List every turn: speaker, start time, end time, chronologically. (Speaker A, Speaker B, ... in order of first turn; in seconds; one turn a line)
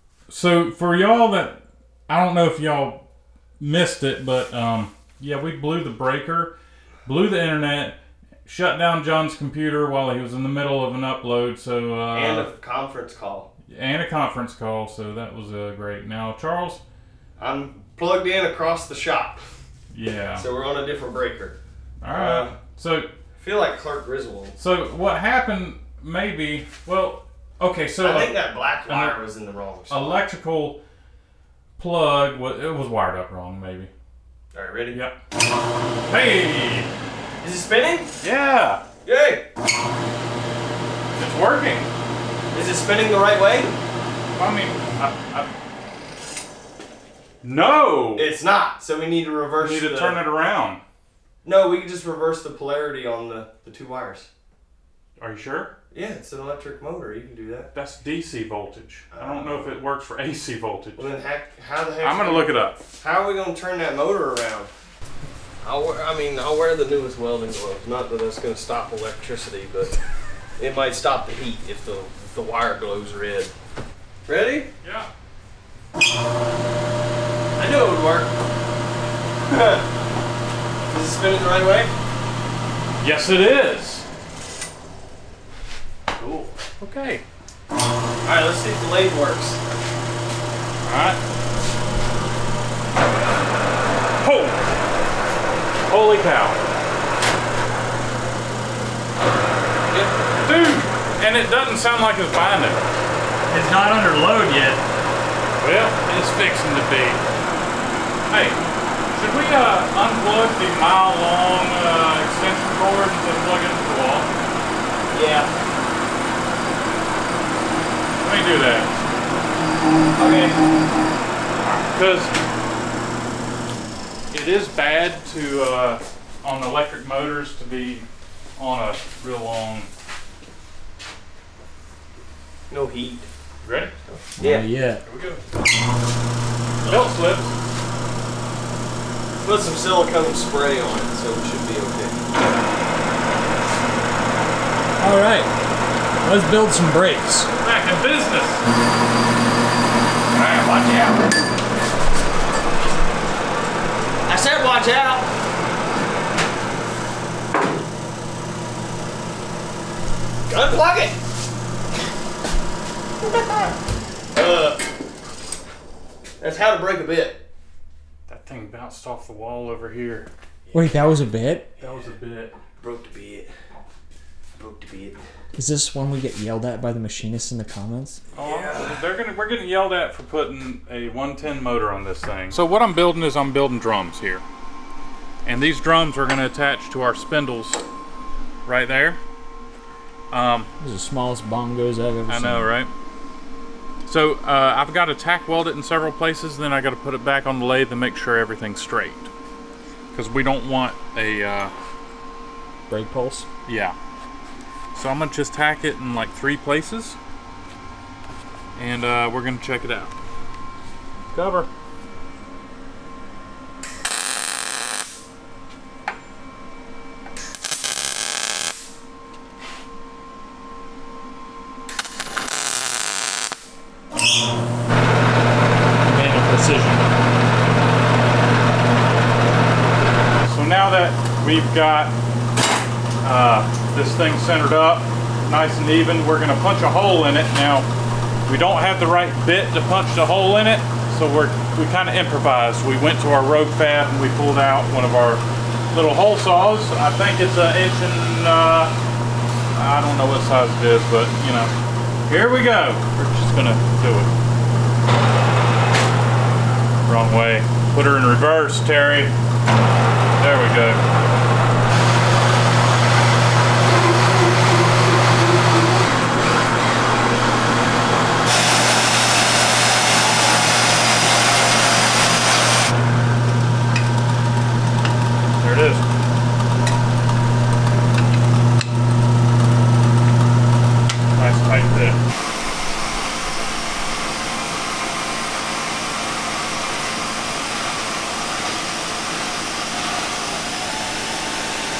Speaker A: 0.3-3.0
Speaker A: 3.6-12.5
Speaker B: 12.1-13.5
Speaker A: 13.7-16.8
Speaker B: 17.4-19.5
Speaker A: 19.9-20.4
Speaker B: 20.4-21.6
Speaker A: 22.0-23.1
Speaker B: 22.1-22.6
Speaker B: 23.4-24.6
Speaker A: 24.6-29.1
Speaker B: 28.0-30.2
Speaker A: 29.9-30.8
Speaker A: 31.8-33.9
Speaker B: 34.5-35.0
Speaker A: 34.9-35.2
Speaker A: 36.1-36.9
Speaker B: 37.4-38.1
Speaker A: 38.2-38.8
Speaker B: 39.0-39.5
Speaker A: 41.1-41.9
Speaker B: 42.5-43.8
Speaker A: 44.4-45.5
Speaker A: 47.4-48.3
Speaker B: 48.1-50.2
Speaker A: 49.6-50.8
Speaker B: 51.4-54.3
Speaker A: 55.2-55.7
Speaker B: 55.9-57.7
Speaker A: 57.7-61.1
Speaker B: 59.1-59.8
Speaker B: 61.0-64.7
Speaker A: 62.0-62.8
Speaker B: 65.6-70.0
Speaker B: 70.6-73.5
Speaker B: 74.3-74.7
Speaker A: 74.8-75.1
Speaker B: 77.6-78.3
Speaker B: 79.5-79.9
Speaker B: 80.9-81.9
Speaker A: 83.0-84.0
Speaker B: 86.2-86.5
Speaker A: 86.8-87.2
Speaker B: 88.2-89.6
Speaker A: 90.8-91.2
Speaker A: 94.2-94.6
Speaker A: 95.9-96.6
Speaker A: 99.9-102.8
Speaker C: 103.5-104.8
Speaker A: 105.6-107.2
Speaker A: 108.3-114.3
Speaker B: 115.1-115.5
Speaker A: 118.2-118.9
Speaker B: 120.2-120.6
Speaker A: 121.9-122.3
Speaker A: 124.3-129.9
Speaker B: 132.7-133.3
Speaker A: 133.6-133.9
Speaker B: 134.0-134.6
Speaker C: 134.4-135.0
Speaker A: 135.0-135.4
Speaker B: 136.8-137.1
Speaker A: 136.8-137.5
Speaker B: 139.4-142.2
Speaker C: 145.0-145.5
Speaker C: 146.2-147.5
Speaker A: 147.6-148.7
Speaker A: 150.3-151.3
Speaker B: 154.3-155.2
Speaker B: 160.5-161.2
Speaker B: 163.2-163.7
Speaker B: 164.3-164.8
Speaker B: 166.4-167.4
Speaker A: 168.3-170.3
Speaker B: 170.7-170.9
Speaker C: 170.7-171.7
Speaker A: 171.8-172.6
Speaker B: 172.8-173.5
Speaker B: 174.6-175.2
Speaker C: 175.5-178.2
Speaker A: 178.3-184.4
Speaker B: 178.4-179.0
Speaker A: 185.4-187.8
Speaker A: 188.7-189.2
Speaker A: 190.3-190.7
Speaker C: 190.8-192.7
Speaker A: 192.3-192.9
Speaker A: 194.0-199.3
Speaker A: 200.1-201.7
Speaker C: 202.9-203.5
Speaker A: 203.7-203.9
Speaker A: 204.9-207.2
Speaker A: 208.8-210.1
Speaker A: 211.3-211.7
Speaker C: 226.0-227.1
Speaker A: 230.4-232.1
Speaker A: 233.2-237.9
Speaker A: 238.4-248.9
Speaker A: 249.7-251.7
Speaker A: 252.3-254.3
Speaker A: 257.0-259.3
Speaker A: 260.4-261.0
Speaker A: 275.6-276.1
Speaker A: 281.3-282.2